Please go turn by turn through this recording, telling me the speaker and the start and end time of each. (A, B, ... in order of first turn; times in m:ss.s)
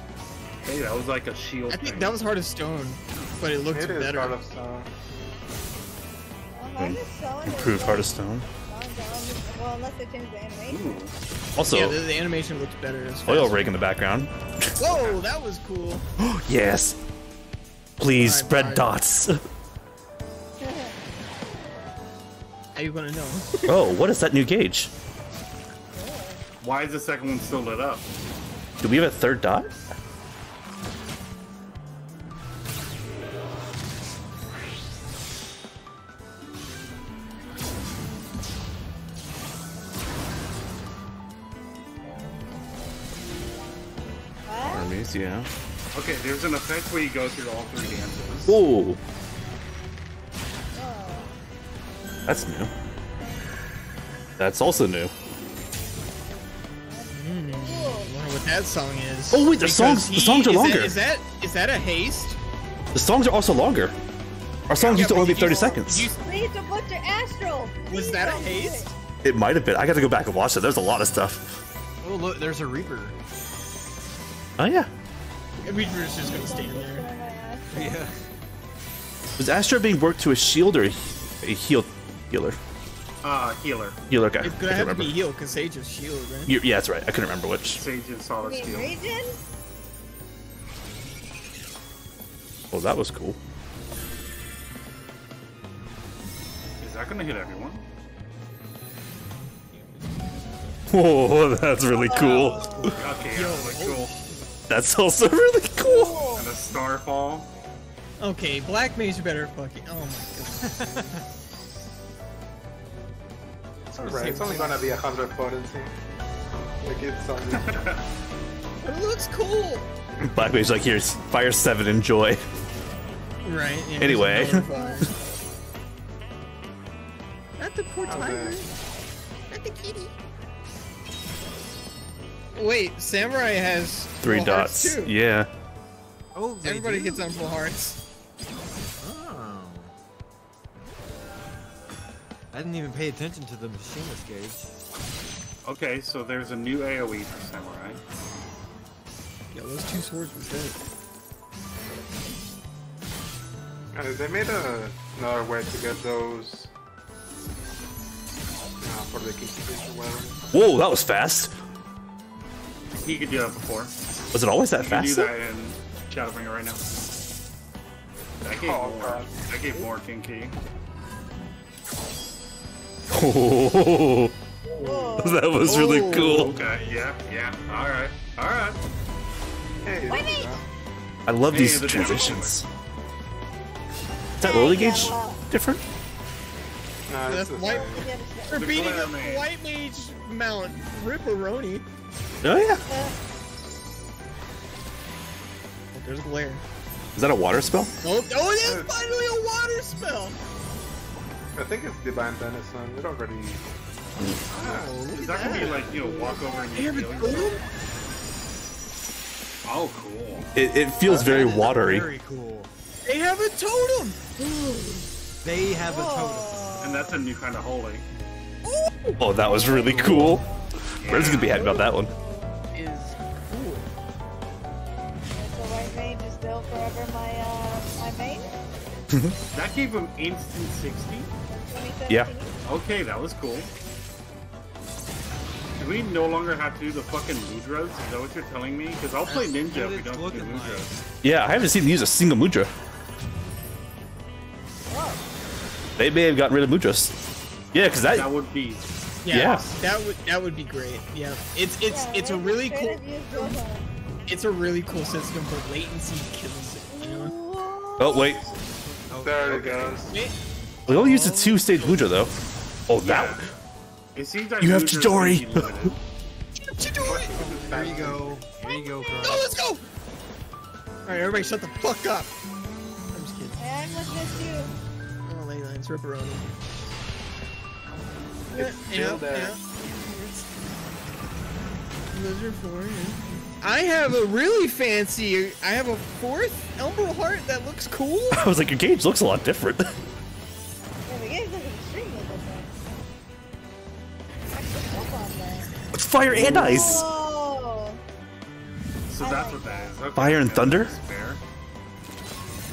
0:00.6-0:02.2 A
0:01.7-0:04.4 B
0:03.7-0:04.9 C
0:06.5-0:11.0 D
0:06.8-0:08.4 E
0:10.7-0:11.1 A
0:11.6-0:12.0 E
0:11.7-0:13.7 B
0:13.2-0:14.3 E
0:14.8-0:16.0 B
0:14.9-0:15.2 A
0:16.2-0:17.0 E
0:18.0-0:19.4 E
0:18.1-0:18.9 B
0:20.6-0:20.9 D
0:22.7-0:23.6 B
0:23.6-0:24.9 E
0:25.9-0:26.4 D
0:26.6-0:28.1 A
0:28.8-0:29.7 E
0:44.4-0:44.9 D
0:44.6-0:45.5 E
0:45.9-0:48.6 A
0:48.5-0:49.0 E
0:50.7-0:51.3 D
0:52.3-0:52.7 E
0:54.4-0:55.1 E
0:56.8-0:58.1 D
0:57.1-1:02.4 B
0:59.3-1:01.0 E
1:02.9-1:03.9 E
1:04.7-1:06.1 E
1:04.8-1:06.1 B
1:05.3-1:08.9 D
1:07.9-1:08.9 B
1:09.2-1:11.4 E
1:12.0-1:13.1 F
1:14.6-1:14.9 E
1:15.6-1:17.0 B
1:16.2-1:18.0 D
1:17.7-1:18.2 F
1:19.4-1:22.6 E
1:23.2-1:24.0 A
1:24.1-1:25.2 E
1:24.4-1:26.5 B
1:26.5-1:27.8 E
1:27.7-1:28.9 A
1:28.4-1:29.4 D
1:32.7-1:33.4 E
1:36.8-1:37.8 A
1:40.9-1:42.9 E
1:41.9-1:43.0 D
1:43.0-1:44.1 A
1:43.1-1:44.5 B
1:44.7-1:46.3 E
1:45.8-1:46.5 D
1:46.4-1:47.5 A
1:48.2-1:51.2 B
1:50.6-1:51.2 F
1:53.9-1:55.9 C
1:54.0-1:54.9 B
1:56.8-1:57.8 C
1:57.5-1:58.0 A
1:58.8-1:59.9 B
2:00.3-2:02.4 E
2:03.4-2:05.1 B
2:04.0-2:04.7 E
2:04.7-2:05.1 D
2:07.6-2:08.7 B
2:08.0-2:08.6 C
2:09.5-2:10.1 B
2:12.5-2:15.1 B
2:14.2-2:15.5 E
2:16.3-2:17.3 F
2:16.6-2:18.0 B
2:19.0-2:19.9 F
2:22.5-2:24.7 F
2:25.6-2:28.0 A
2:29.5-2:30.8 B
2:33.9-2:36.7 C
2:38.8-2:40.4 C
2:40.5-2:41.5 E
2:43.0-2:43.9 A
2:44.3-2:45.3 E
2:44.7-2:46.8 A
2:48.4-2:50.6 A
2:48.5-2:49.4 C
2:53.1-2:54.3 E
2:54.8-2:55.5 D
2:55.2-2:56.5 E
2:55.6-2:56.5 B
2:56.0-2:58.8 A
2:56.4-2:56.8 F
2:59.8-3:00.6 C
3:00.0-3:00.6 D
3:01.2-3:02.6 E
3:01.5-3:02.6 A
3:04.4-3:05.8 E
3:04.4-3:05.4 D
3:07.1-3:08.0 C
3:07.2-3:11.8 B
3:07.6-3:08.8 D
3:08.5-3:09.5 A
3:12.4-3:12.8 E
3:12.9-3:13.2 D
3:15.9-3:16.6 B
3:17.1-3:17.9 E
3:18.0-3:20.4 B
3:18.6-3:19.0 C
3:21.6-3:23.7 C
3:24.5-3:26.2 F
3:24.5-3:27.5 A
3:25.1-3:25.8 B
3:25.5-3:27.6 D
3:26.7-3:27.6 B
3:29.6-3:30.5 A
3:30.5-3:32.1 E
3:30.9-3:31.7 D
3:31.1-3:31.7 C
3:31.3-3:32.7 F
3:33.0-3:34.2 B
3:34.4-3:34.9 D
3:35.4-3:36.7 F
3:35.8-3:37.2 D
3:36.8-3:38.1 A
3:38.6-3:42.6 D
3:39.2-3:40.4 E
3:40.0-3:40.4 F
3:41.0-3:42.1 E
3:41.0-3:41.6 A
3:42.7-3:43.9 B
3:45.3-3:48.5 D
3:49.5-3:51.3 A
3:51.5-3:52.6 D
3:52.6-3:53.7 A
3:55.8-4:01.0 A
3:59.2-4:01.0 F
4:01.2-4:02.7 E
4:04.9-4:05.2 D
4:06.0-4:07.1 E
4:07.7-4:08.3 E
4:08.1-4:08.9 A
4:09.2-4:13.6 B
4:09.3-4:09.7 E
4:11.9-4:13.9 D
4:14.3-4:17.3 B
4:16.9-4:18.4 D
4:18.0-4:18.4 E
4:19.1-4:20.0 F
4:19.2-4:20.1 C
4:20.1-4:20.3 B
4:20.9-4:22.3 E
4:20.9-4:22.0 B
4:22.9-4:23.4 E
4:23.0-4:23.4 A
4:24.1-4:26.0 A
4:24.6-4:25.9 E
4:26.6-4:27.4 B
4:27.0-4:28.0 A
4:27.3-4:28.4 C
4:27.4-4:29.5 F
4:28.6-4:29.4 D
4:29.2-4:29.8 B
4:31.0-4:32.3 B
4:33.1-4:33.6 B
4:33.6-4:34.7 D
4:35.2-4:36.5 B
4:38.5-4:39.6 C
4:38.5-4:40.4 B
4:42.1-4:48.4 B
4:48.3-4:49.9 E
4:51.0-4:52.7 D
4:54.5-4:55.7 D
4:55.9-4:57.1 E
4:56.4-4:58.0 D
4:59.1-5:01.4 A
4:59.2-5:00.0 D
5:00.2-5:00.9 E